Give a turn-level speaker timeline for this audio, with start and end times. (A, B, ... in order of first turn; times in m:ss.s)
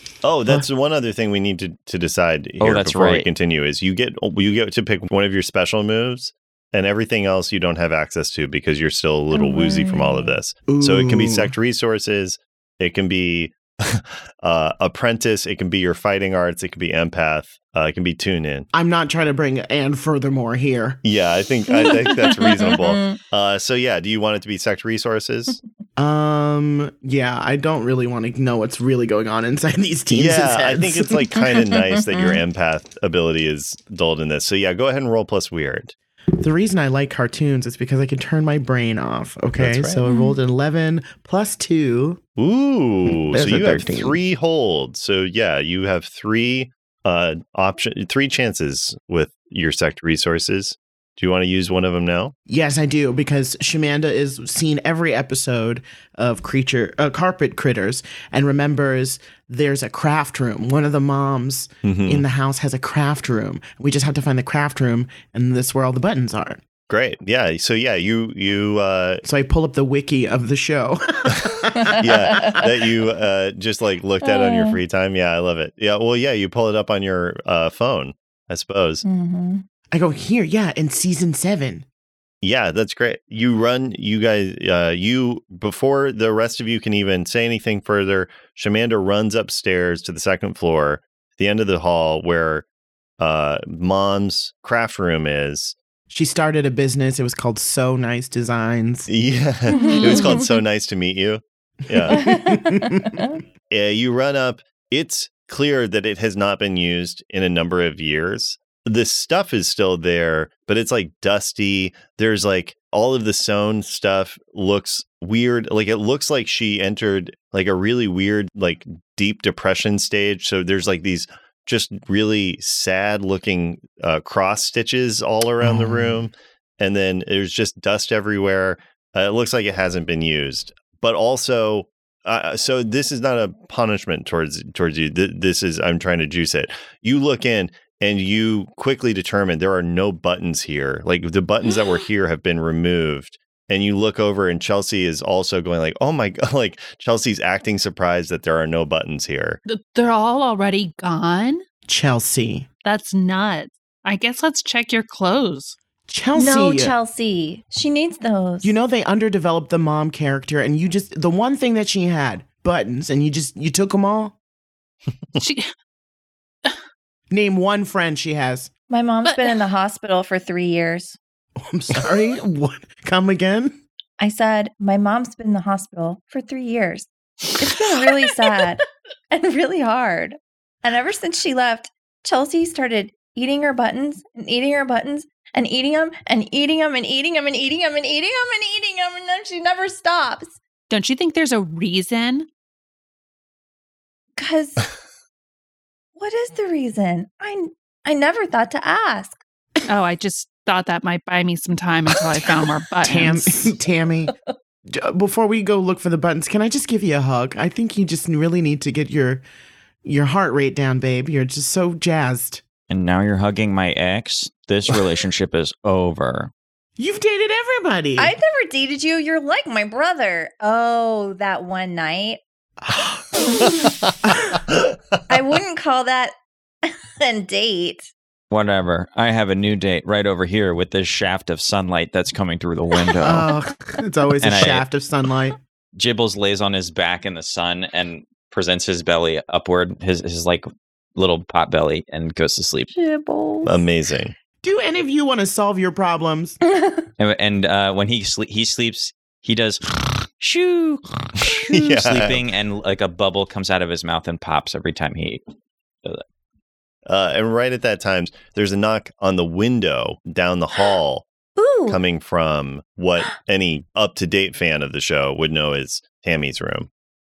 0:00.2-0:18.7 A
0:02.6-0:03.3 B
0:09.3-0:10.4 C
0:10.7-0:11.5 D
0:18.7-0:21.0 D
0:21.0-0:25.6 A
0:21.7-0:23.2 C
0:26.0-0:31.3 D
0:30.1-0:35.9 A
0:36.4-0:42.2 D
0:39.6-0:40.0 A
0:40.0-0:40.4 C
0:42.4-0:52.3 A
0:43.0-0:44.2 D
0:52.4-1:06.6 D
1:01.8-1:02.2 A
1:06.9-1:09.2 A
1:09.2-1:12.0 D
1:11.8-1:12.6 C
1:12.0-1:19.0 A
1:14.2-1:14.8 C
1:19.0-1:19.6 C
1:19.9-1:21.8 D
1:22.4-1:32.6 A
1:33.2-1:35.7 A
1:36.1-1:39.1 D
1:39.1-1:42.3 A
1:39.7-1:40.4 C
1:39.8-1:40.3 E
1:42.0-1:43.2 D
1:42.1-1:43.4 C
1:43.7-2:29.6 A
2:05.6-2:06.3 D
2:29.7-2:31.6 E
2:31.9-2:32.7 D
2:32.8-2:35.8 E
2:36.1-2:36.9 D
2:36.3-2:38.7 C
2:38.6-2:44.3 D
2:45.4-2:45.7 E
2:47.3-2:48.7 D
2:48.9-2:51.2 C
2:49.2-2:49.5 E
2:51.6-2:53.8 D
2:54.2-3:10.6 C
3:10.9-3:12.5 E
3:14.4-3:14.8 C
3:16.2-3:19.4 C
3:19.9-3:23.6 E
3:23.0-3:24.3 D
3:24.9-3:29.4 D
3:30.0-3:32.6 D
3:32.9-3:36.5 B
3:37.0-3:38.3 D
3:38.2-3:42.4 C
3:42.9-3:43.2 D
3:45.3-3:46.3 C
3:46.8-3:48.1 C
3:48.5-3:53.5 B
3:53.2-3:55.6 D
3:54.4-3:54.8 B
3:55.9-4:02.9 B
4:02.9-4:03.8 C
4:03.6-4:04.3 A
4:04.6-4:06.6 D
4:06.7-4:07.0 C
4:07.2-4:15.4 B
4:11.7-4:12.4 A
4:17.0-4:21.3 A
4:21.6-4:22.0 C
4:21.9-4:26.9 A